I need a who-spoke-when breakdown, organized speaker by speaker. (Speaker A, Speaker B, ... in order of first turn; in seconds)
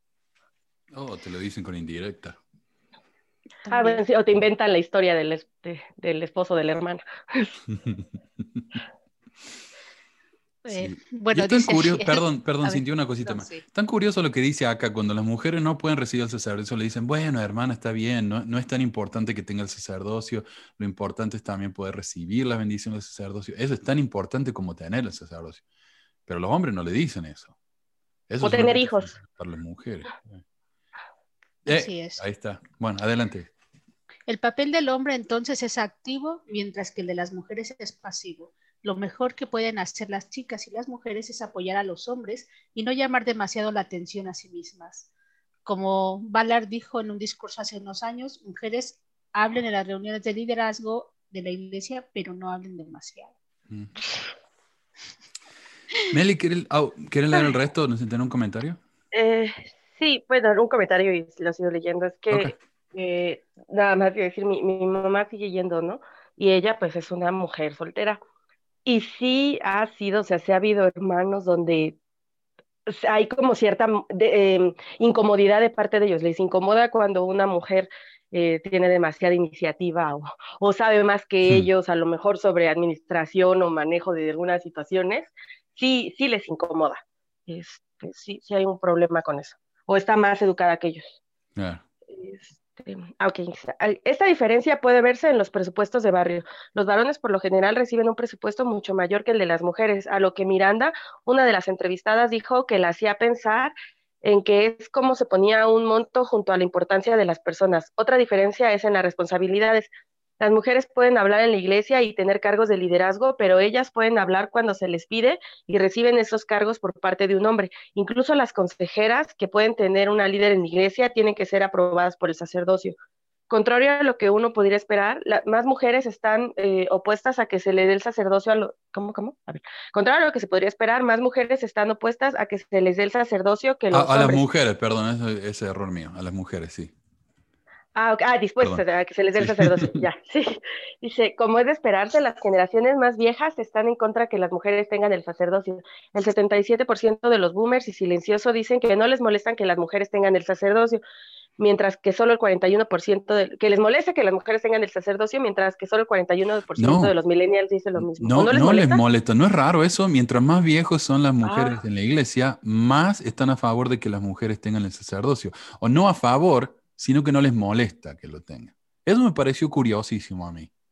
Speaker A: 0.9-2.4, 10.7-25.6, 26.3-27.5, 28.3-30.4, 31.6-33.5, 56.1-58.8, 62.3-62.6, 91.5-91.8, 133.9-136.9, 139.4-140.1, 156.8-157.1, 158.0-170.7
Speaker B: 3.6-4.0, 10.6-13.6, 31.7-32.2, 34.3-45.0, 45.6-53.3
Speaker C: 3.7-7.5, 28.4-29.1, 59.1-68.2, 68.8-72.0, 72.9-91.0, 92.1-122.9, 123.5-134.4, 137.9-151.0, 151.6-159.0, 161.4-161.8